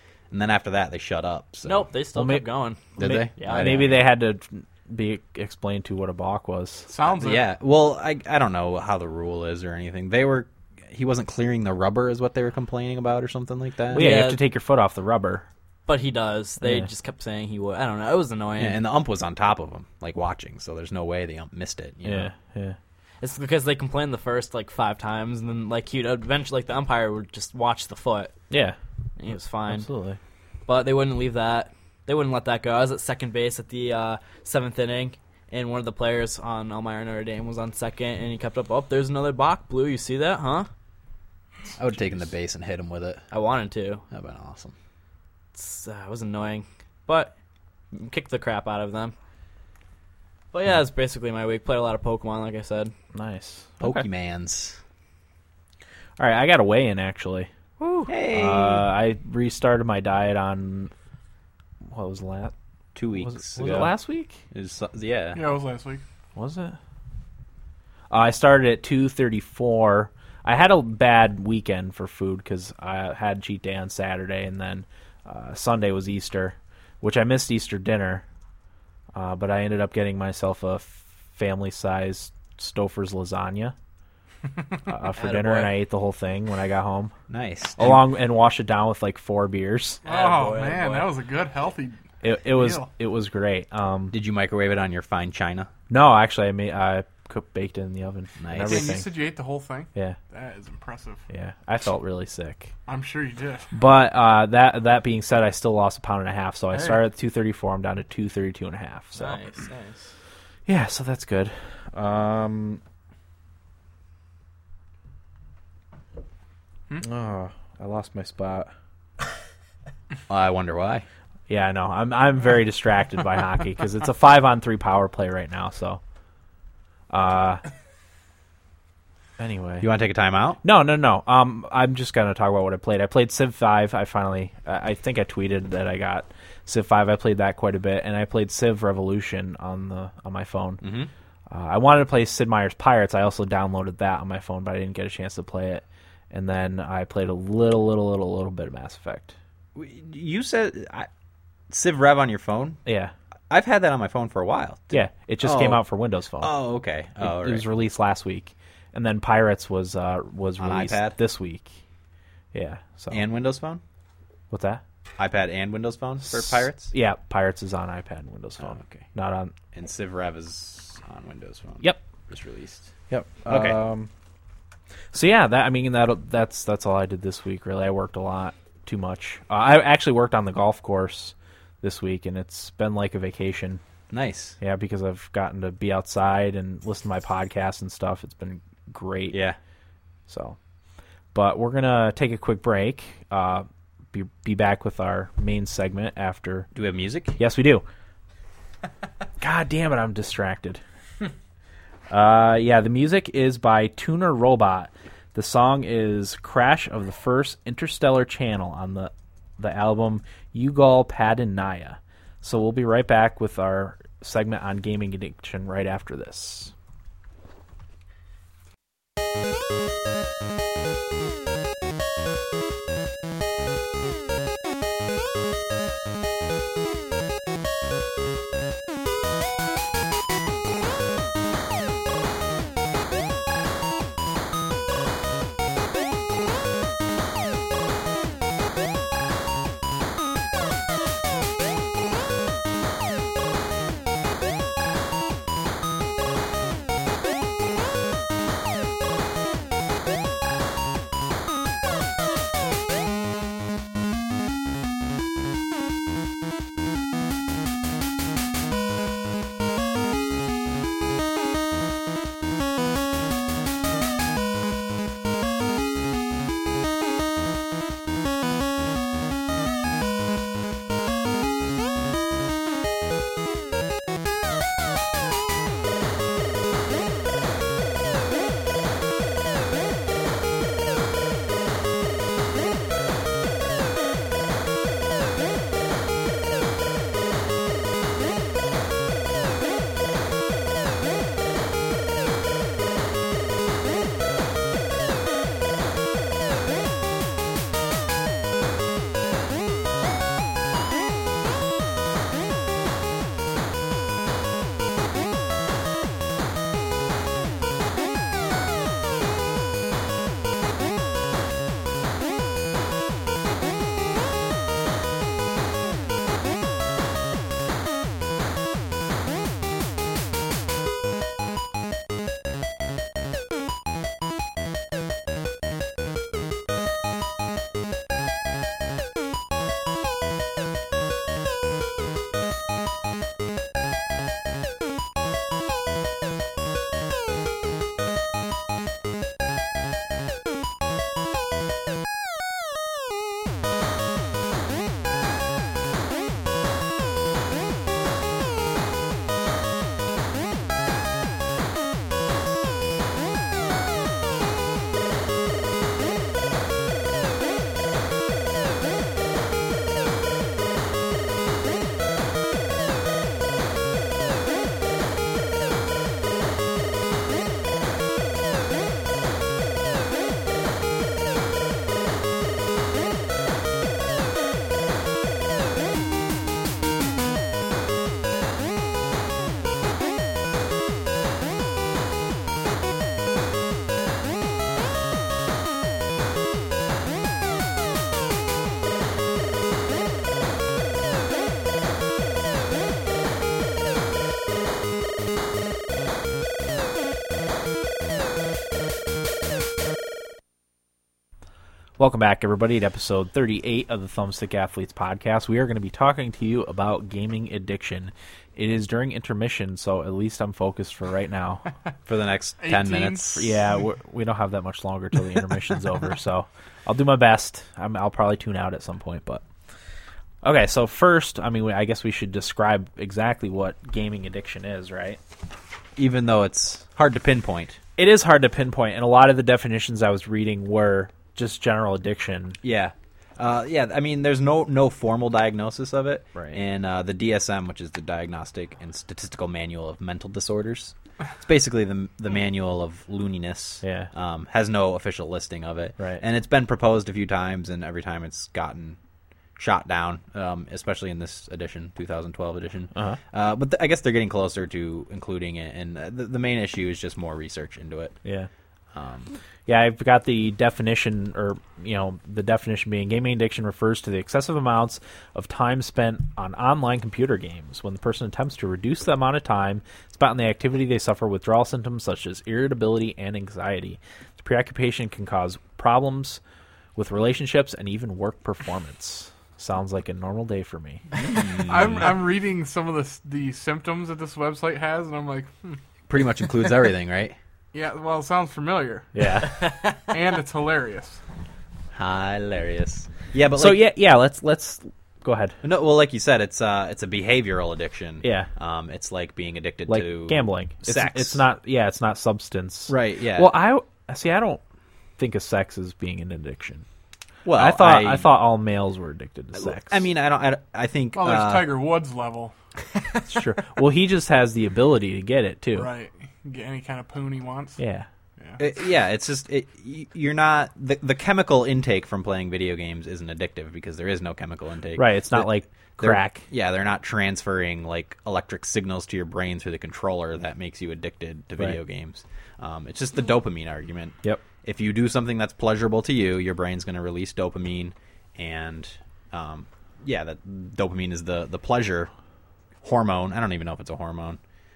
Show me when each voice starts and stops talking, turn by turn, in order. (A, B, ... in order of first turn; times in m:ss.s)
0:00.3-0:01.9 A
0:01.6-0:03.9 B
0:02.1-0:02.4 C
0:03.0-0:04.0 A
0:03.0-0:06.9 C
0:06.9-0:07.4 D
0:07.0-0:14.1 A
0:13.9-0:15.5 C
0:13.9-0:14.4 B
0:15.9-0:18.8 B
0:16.6-0:16.9 C
0:18.6-0:22.3 A
0:22.0-0:22.8 C
0:23.2-0:28.3 B
0:28.5-0:28.8 C
0:29.2-0:29.9 B
0:29.7-0:30.2 C
0:30.6-0:40.7 B
0:41.8-0:43.2 A
0:43.3-0:44.0 B
0:44.1-0:44.7 A
0:45.5-0:47.3 B
0:47.9-0:49.1 B
0:50.5-0:52.9 B
0:53.1-0:54.0 C
0:53.8-0:54.8 A
0:56.2-0:57.5 C
0:57.8-0:58.1 B
0:58.1-0:58.9 A
0:58.3-1:00.9 C
1:01.9-1:02.5 C
1:02.9-1:03.9 A
1:03.2-1:04.4 C
1:04.5-1:05.4 A
1:05.3-1:06.0 D
1:06.3-1:06.8 C
1:08.1-1:18.2 C
1:19.1-1:23.7 C
1:24.9-1:27.1 C
1:25.1-1:25.7 B
1:27.3-1:28.0 A
1:27.8-1:30.0 C
1:30.0-1:31.1 B
1:30.0-1:32.9 D
1:32.2-1:34.1 C
1:34.1-1:35.7 A
1:35.9-1:39.1 C
1:38.4-1:39.0 A
1:38.6-1:41.2 D
1:41.3-1:42.7 C
1:42.9-1:43.7 D
1:43.7-1:49.4 C
1:46.7-1:47.0 D
1:49.1-1:50.1 B
1:50.6-1:52.8 C
1:57.0-1:58.7 C
2:00.3-2:01.0 A
2:01.5-2:06.0 C
2:07.1-2:07.6 C
2:09.4-2:09.9 C
2:09.8-2:10.6 A
2:10.6-2:20.8 C
2:20.8-2:21.1 A
2:21.5-2:29.4 C
2:29.7-2:31.1 A
2:31.7-2:32.8 A
2:32.8-2:33.1 C
2:33.5-2:35.8 A
2:34.9-2:36.5 C
2:36.4-2:37.6 A
2:37.2-2:41.7 C
2:40.6-2:41.2 A
2:42.5-2:43.2 C
2:43.1-2:43.8 A
2:44.5-2:44.8 C
2:45.2-2:46.9 A
2:46.2-2:49.5 C
2:48.6-2:49.0 A
2:49.7-2:52.9 A
2:53.1-2:54.1 C
2:53.4-2:53.8 A
2:55.1-3:03.8 C
3:04.1-3:04.6 A
3:04.6-3:09.4 C
3:09.3-3:09.6 A
3:10.3-3:10.6 C
3:11.3-3:16.7 C
3:16.7-3:17.4 A
3:17.4-3:17.8 C
3:19.4-3:20.8 C
3:22.1-3:36.7 C
6:42.0-6:51.6 C
6:52.0-6:53.5 A
6:52.6-6:53.5 D
6:53.4-6:59.4 C
7:00.4-7:05.2 C
7:06.0-7:07.8 A
7:08.0-7:12.6 C
7:12.6-7:29.0 A
7:16.3-7:16.6 C
7:23.8-7:24.1 C
7:29.6-7:38.2 A
7:32.9-7:33.2 C
7:38.9-7:39.3 A
7:39.7-7:56.4 C
7:57.0-8:01.0 C
8:01.2-8:02.1 A
8:01.4-8:05.8 D
8:06.1-8:07.4 A
8:07.7-8:11.2 D
8:09.1-8:09.7 C
8:11.9-8:13.8 A
8:13.5-8:15.6 C
8:15.6-8:21.4 A
8:18.2-8:18.5 C
8:19.9-8:24.6 C
8:22.9-8:23.5 A
8:25.2-8:26.8 C
8:27.4-8:28.3 A
8:27.5-8:30.0 C
8:29.6-8:31.7 A
8:31.1-8:32.5 D
8:33.2-8:35.9 C
8:35.7-8:37.8 D
8:37.8-8:38.1 C
8:38.6-9:02.1 A
8:45.0-8:46.5 C
9:02.8-9:04.4 A